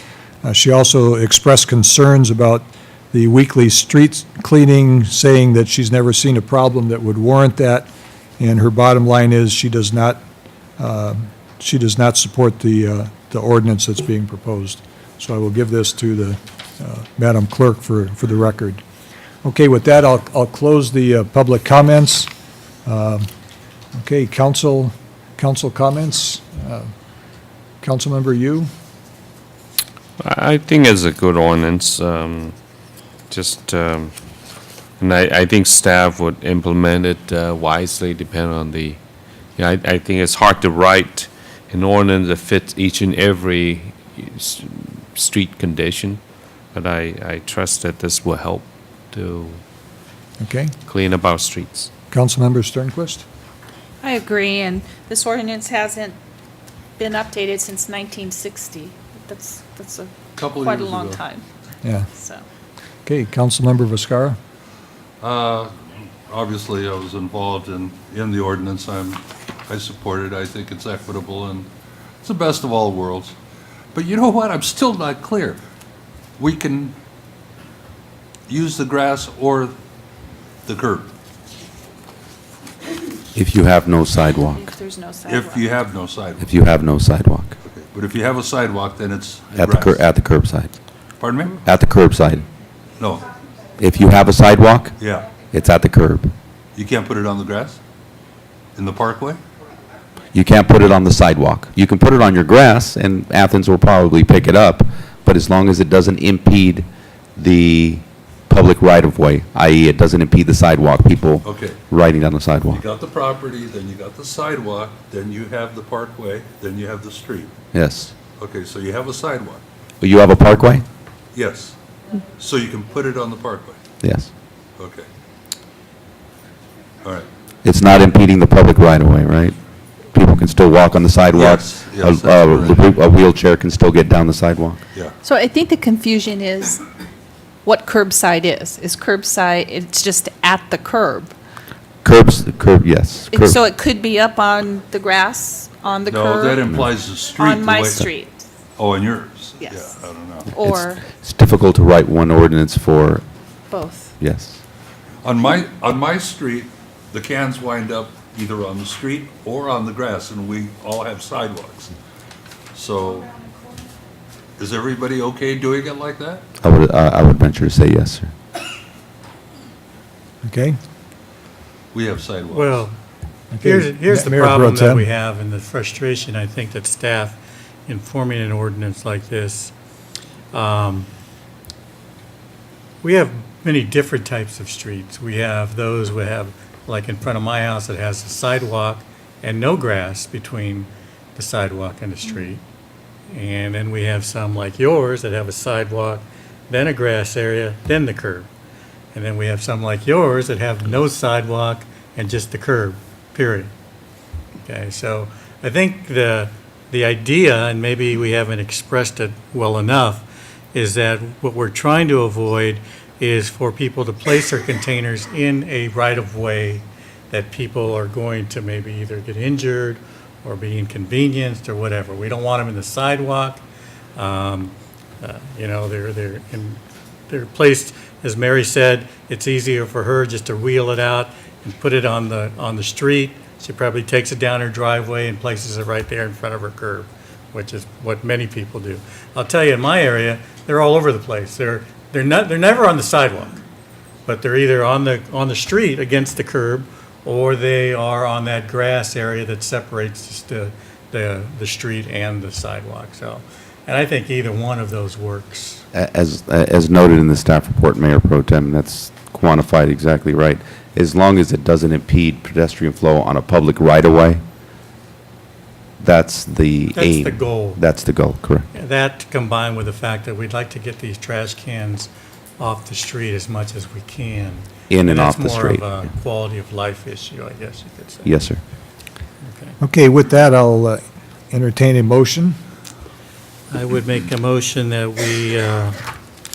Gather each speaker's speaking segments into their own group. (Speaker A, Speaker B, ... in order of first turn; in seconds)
Speaker A: 0.4-7.9, 8.4-10.2, 10.8-18.8, 19.4-22.3, 22.9-23.3, 23.9-26.9, 27.8-28.7, 50.4-50.7, 52.1-53.3, 61.8-62.1, 63.0-64.4, 170.4-170.8, 173.5-175.1, 279.8-282.6
Speaker B: 30.2-32.5, 33.3-34.1, 35.0-39.0, 39.5-46.2, 46.7-49.6, 50.9-51.9
Speaker C: 54.0-56.2, 57.0-61.4, 62.1-62.4, 84.5-85.7, 135.2-136.8, 137.6-141.3, 143.3-148.4, 149.6-150.0, 150.5-151.0, 153.7-154.1
Speaker D: 60.4-61.2, 65.2-65.7, 66.3-71.7, 72.2-73.3, 73.9-75.6, 76.4-76.9, 78.5-79.7, 80.7-81.1, 85.2-86.5, 87.7-90.0, 91.2-91.6, 93.0-93.3, 95.0-95.3, 96.8-97.8, 98.8-99.4, 111.4-111.8, 112.7-117.5, 118.4-119.6, 121.3-121.7, 122.4-123.8, 124.8-125.1, 127.0-127.3, 131.3-132.9, 146.1-148.1, 148.8-150.5, 155.2-161.9, 162.7-163.4, 164.6-166.4, 171.9-172.8
Speaker E: 83.3-84.7, 86.4-87.6, 89.5-90.7, 91.6-92.5, 93.8-95.0, 95.5-96.3, 100.3-112.8, 117.7-118.1, 120.0-120.8, 124.0-124.3, 127.6-129.6, 130.1-134.8, 142.0-143.6, 150.6-153.2, 154.2-154.6, 166.6-168.3, 255.9-264.4, 266.0-268.7, 274.9-275.9, 278.2-278.6
Speaker F: 172.5-172.9, 173.6-179.7, 180.5-181.1, 183.0-192.6, 193.3-198.5, 199.1-203.7, 204.7-223.6, 224.2-243.6, 244.2-255.8, 266.9-267.8, 268.7-278.4, 279.4-279.8, 283.7-286.0